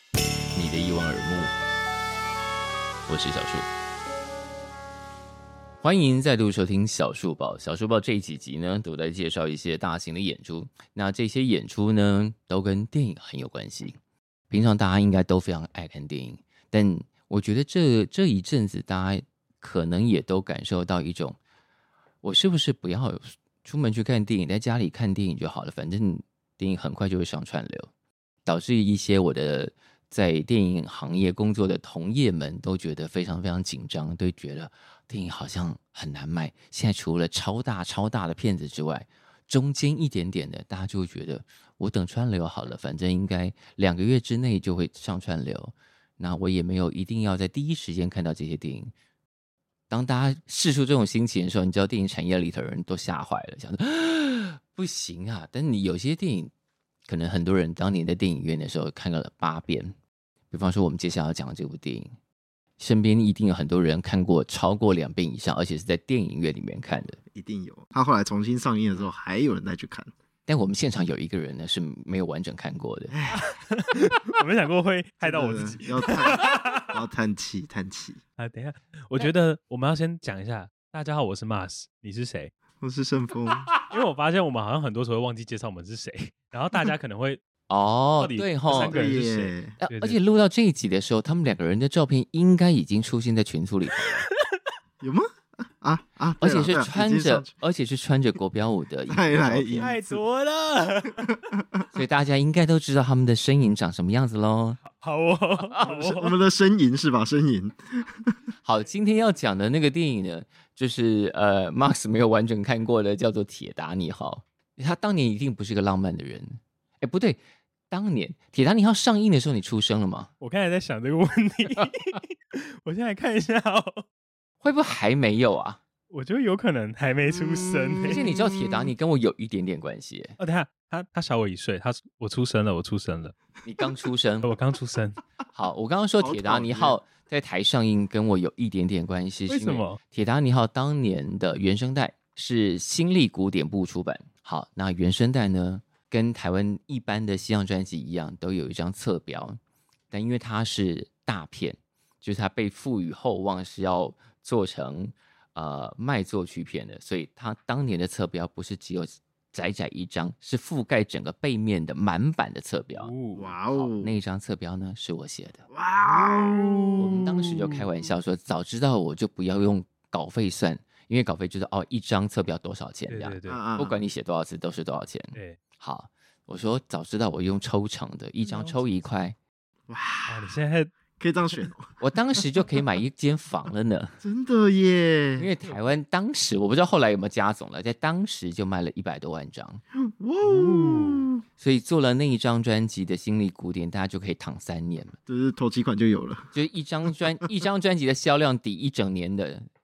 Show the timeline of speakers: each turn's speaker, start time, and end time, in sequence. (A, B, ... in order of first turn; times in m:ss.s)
0:00.5-0:01.5 A
0:03.1-0:03.7 A
0:05.8-0:13.9 A
0:14.5-0:21.4 A
0:22.2-0:27.9 A
0:28.4-0:48.9 A
0:49.9-0:56.5 A
0:57.0-0:59.9 A
1:00.5-1:02.1 A
1:02.8-1:07.2 A
1:07.3-1:10.1 B
1:10.5-1:13.1 A
1:13.1-1:13.5 B
1:13.3-1:16.9 C
1:15.2-1:18.2 B
1:18.4-1:22.5 C
1:22.8-1:23.7 B
1:23.9-1:27.4 C
1:27.7-1:29.1 A
1:28.2-1:30.2 C
1:28.7-1:29.8 B
1:29.8-1:34.2 A
1:34.0-1:34.4 C
1:35.0-1:37.5 B
1:36.4-1:39.9 A
1:39.1-1:40.2 B
1:39.8-1:41.4 C
1:41.3-1:41.8 B
1:41.9-1:44.8 A
1:44.8-1:46.4 C
1:45.6-1:46.1 A
1:45.9-1:48.3 B
1:48.6-2:00.3 A
2:00.4-2:04.0 C
2:04.6-2:05.8 A
2:06.1-2:08.2 C
2:08.0-2:10.4 A
2:10.4-2:13.4 C
2:13.6-2:14.5 A
2:14.4-2:15.2 C
2:15.5-2:29.6 A
2:16.2-2:17.0 B
2:19.5-2:20.0 C
2:30.1-2:43.1 A
2:42.9-2:43.5 C
2:43.3-2:44.2 B
2:43.7-2:45.6 A
2:45.7-2:47.2 B
2:46.0-2:47.8 C
2:47.0-2:59.4 A
2:53.1-2:53.6 C
2:53.4-2:54.0 B
2:58.5-2:58.8 C
2:59.9-3:00.5 B
3:00.3-3:00.9 C
3:01.2-3:01.9 B
3:02.0-3:04.2 A
3:04.2-3:05.5 B
3:05.4-3:09.8 A
3:10.0-3:11.4 B
3:10.4-3:11.2 C
3:11.6-3:15.2 A
3:15.3-3:16.5 B
3:16.5-3:19.7 A